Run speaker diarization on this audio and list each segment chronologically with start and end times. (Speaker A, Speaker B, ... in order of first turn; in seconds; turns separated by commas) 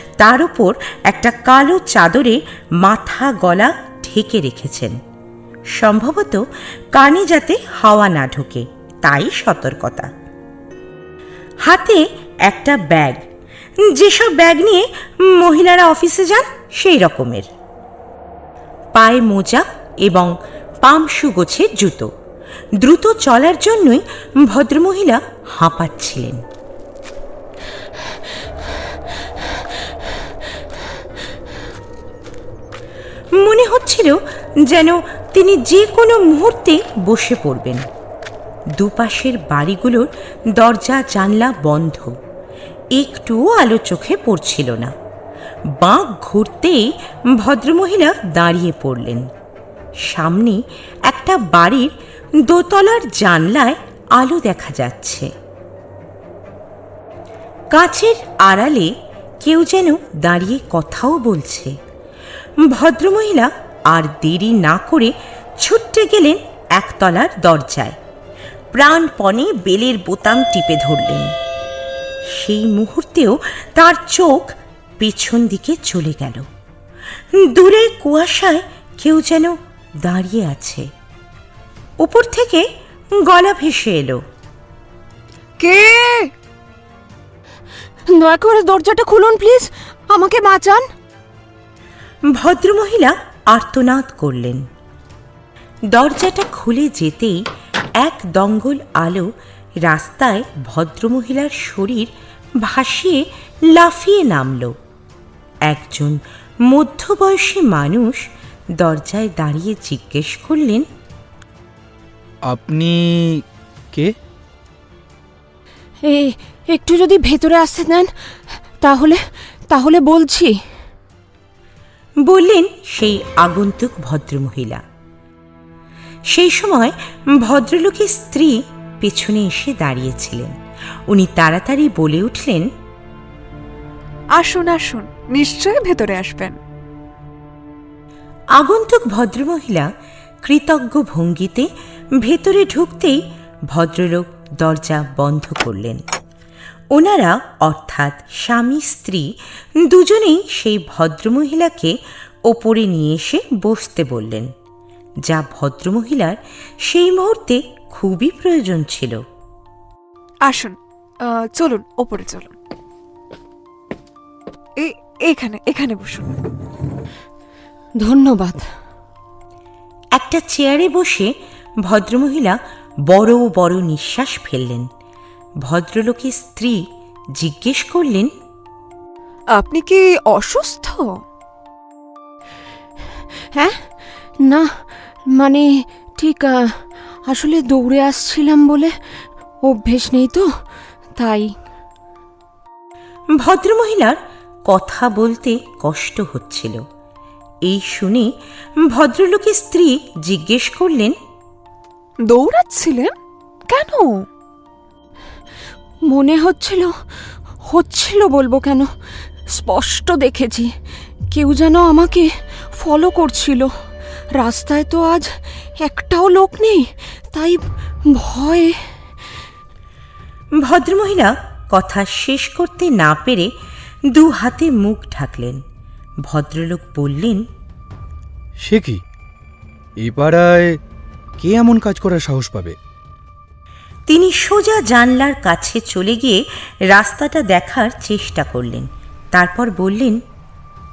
Speaker A: 0.2-5.0, Speaker A: 5.8-10.1, Speaker A: 11.6-13.2, Speaker A: 13.8-17.5, Speaker A: 18.9-22.1, Speaker A: 22.8-26.4, Speaker A: 33.4-37.8, Speaker A: 38.8-42.2, Speaker A: 43.0-44.9, Speaker A: 45.8-49.2, Speaker A: 50.0-51.9, Speaker A: 52.4-55.3, Speaker A: 57.7-58.9, Speaker A: 59.4-61.7, Speaker A: 62.7-68.0, Speaker A: 68.7-71.3, Speaker A: 72.3-76.5, Speaker A: 77.4-80.9, Speaker A: 82.0-84.2, Speaker B: 85.6-86.3, Speaker C: 88.1-90.9, Speaker A: 92.3-94.6, Speaker A: 95.9-97.4, Speaker A: 98.0-99.3, Speaker A: 99.8-102.1, Speaker A: 102.6-104.7, Speaker A: 105.7-108.2, Speaker A: 108.8-110.9, Speaker D: 112.5-114.1, Speaker C: 116.0-120.6, Speaker A: 122.3-124.8, Speaker A: 126.3-130.5, Speaker A: 131.1-132.7, Speaker B: 134.4-136.6, Speaker A: 138.6-139.9, Speaker A: 140.4-141.7, Speaker A: 142.2-146.0, Speaker A: 146.9-149.3, Speaker A: 149.8-151.9, Speaker A: 152.5-154.5, Speaker A: 155.2-159.2, Speaker B: 160.5-162.5, Speaker B: 164.8-166.3, Speaker C: 168.0-168.7, Speaker A: 170.2-171.3, Speaker A: 171.8-172.6, Speaker A: 173.1-174.9, Speaker A: 175.6-176.8, Speaker A: 177.4-178.3, Speaker B: 179.6-181.1, Speaker C: 183.4-183.8, Speaker C: 184.4-188.9, Speaker C: 189.7-190.5, Speaker C: 191.2-191.5, Speaker A: 193.4-196.8, Speaker A: 197.7-198.3, Speaker A: 198.9-201.2, Speaker B: 202.3-203.1, Speaker B: 203.7-204.2, Speaker C: 206.1-207.0, Speaker C: 207.7-208.9, Speaker C: 209.5-210.8, Speaker C: 211.3-213.7, Speaker C: 214.4-218.9, Speaker A: 220.6-223.5, Speaker A: 224.1-225.6, Speaker A: 226.3-227.4, Speaker D: 228.6-229.0, Speaker D: 230.0-230.8, Speaker D: 231.4-232.8, Speaker A: 234.1-240.2